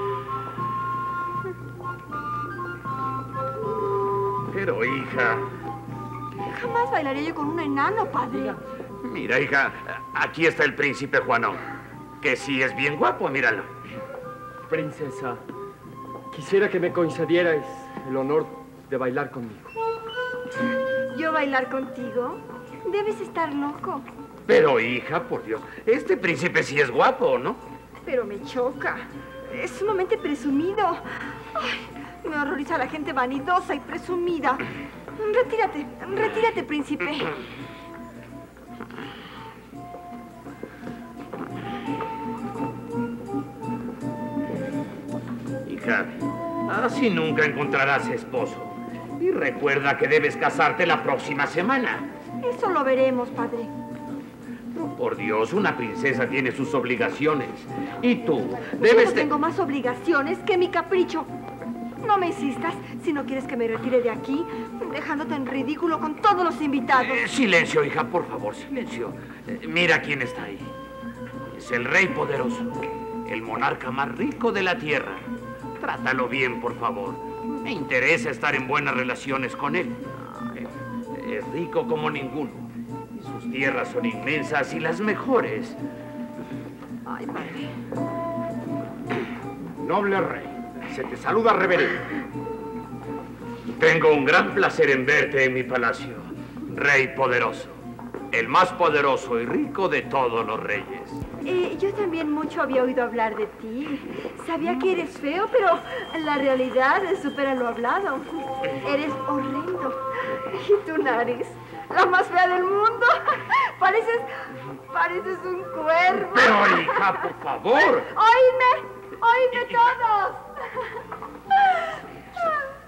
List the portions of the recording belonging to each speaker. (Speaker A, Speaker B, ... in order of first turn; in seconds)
Speaker A: 4.5-5.5, 9.0-11.7, 12.2-13.7, 24.5-27.6, 45.6-52.1, 54.7-59.3, 67.0-70.7, 71.5-80.0, 80.5-85.8, 93.8-101.2, 116.2-118.1
Speaker B: 6.5-8.6, 21.1-24.1, 28.0-34.6, 35.1-37.3, 52.4-53.7, 58.7-61.3, 62.0-67.2, 87.0-87.7, 101.4-117.2, 117.8-120.9, 121.6-121.9
Speaker C: 14.7-15.4, 16.3-19.7
Speaker D: 89.8-92.0